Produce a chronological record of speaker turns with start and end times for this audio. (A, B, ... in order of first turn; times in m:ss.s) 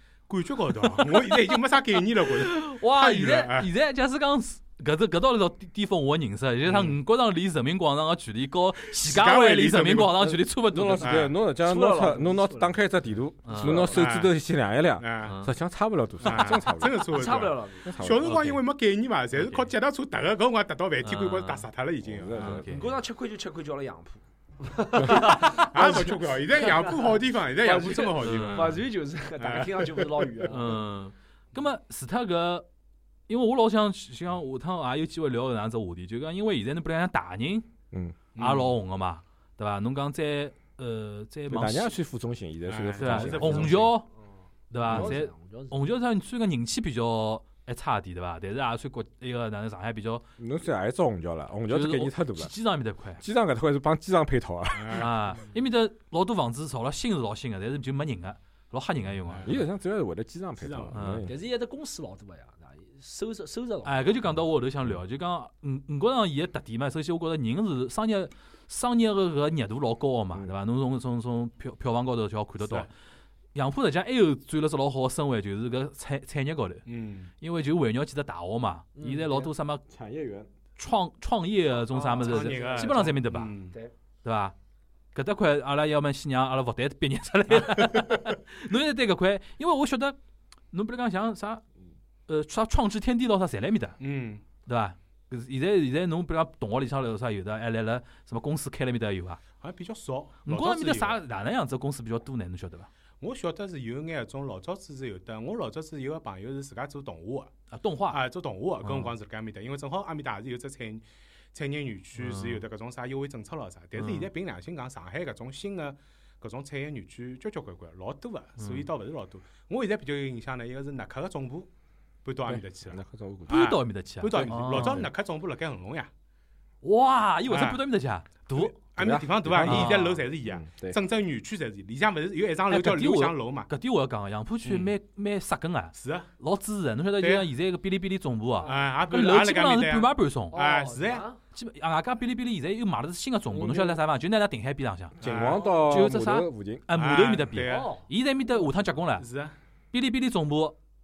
0:00.3-0:03.7 A
0:01.0-0:11.3 B
0:06.6-0:07.0 A
0:09.0-0:10.3 A
0:10.3-0:18.4 C
0:11.0-0:11.3 A
0:11.6-0:12.8 D
0:13.4-0:13.9 B
0:13.6-0:14.0 D
0:13.8-0:14.3 A
0:15.0-0:15.4 A
0:15.2-0:15.5 B
0:16.2-0:22.6 A
0:17.0-0:17.9 D
0:18.2-0:18.6 B
0:19.3-0:19.7 B
0:21.0-0:21.7 B
0:22.0-0:22.7 C
0:22.3-0:22.9 B
0:22.7-0:30.8 D
0:25.1-0:28.8 A
0:28.1-0:28.8 B
0:29.4-0:30.5 A
0:30.5-0:32.6 B
0:33.3-0:37.7 B
0:37.9-0:38.2 C
0:38.4-0:38.7 A
0:38.4-0:41.9 B
0:41.5-0:43.9 C
0:42.7-0:43.9 A
0:43.0-0:44.0 B
0:44.7-0:50.2 B
0:44.8-0:45.8 D
0:44.8-0:45.2 C
0:50.4-0:52.5 C
0:51.7-0:53.2 B
0:53.2-0:55.1 C
0:54.7-0:55.2 A
0:54.9-0:59.6 B
0:59.2-0:59.6 A
0:59.4-1:01.4 C
1:00.6-1:01.0 A
1:00.9-1:01.3 B
1:01.2-1:04.1 D
1:03.8-1:12.9 B
1:12.6-1:12.9 A
1:13.5-1:16.8 B
1:16.9-1:17.3 A
1:17.4-1:19.8 B
1:19.0-1:19.5 D
1:19.9-1:20.5 C
1:20.8-1:23.6 B
1:21.9-1:23.0 D
1:22.0-1:23.7 A
1:24.2-1:24.5 B
1:25.1-1:30.2 B
1:30.7-1:31.6 B
1:32.3-1:34.0 B
1:34.0-1:34.4 A
1:34.6-1:39.4 B
1:39.6-1:41.2 A
1:40.4-1:42.9 B
1:43.2-1:47.5 A
1:47.7-1:48.2 B
1:48.1-2:01.7 A
1:48.8-1:49.1 B
1:52.1-1:52.6 B
1:54.0-1:54.3 B
1:58.6-1:58.9 B
2:02.2-2:06.1 A
2:02.4-2:03.6 C
2:03.5-2:05.1 B
2:04.7-2:05.1 C
2:06.8-2:08.8 B
2:07.5-2:07.8 A
2:08.5-2:13.7 A
2:09.0-2:11.0 C
2:09.6-2:10.2 B
2:12.7-2:20.6 B
2:14.6-2:14.9 A
2:16.0-2:16.3 A
2:17.2-2:17.5 A
2:18.6-2:18.9 D
2:18.6-2:21.2 A
2:20.5-2:21.4 D
2:21.5-2:25.2 B
2:23.5-2:24.0 C
2:25.2-2:26.8 C
2:25.2-2:25.7 A
2:25.5-2:25.8 D
2:25.8-2:29.3 B
2:26.9-2:27.9 A
2:27.6-2:28.0 D
2:29.2-2:29.5 A
2:29.9-2:30.8 B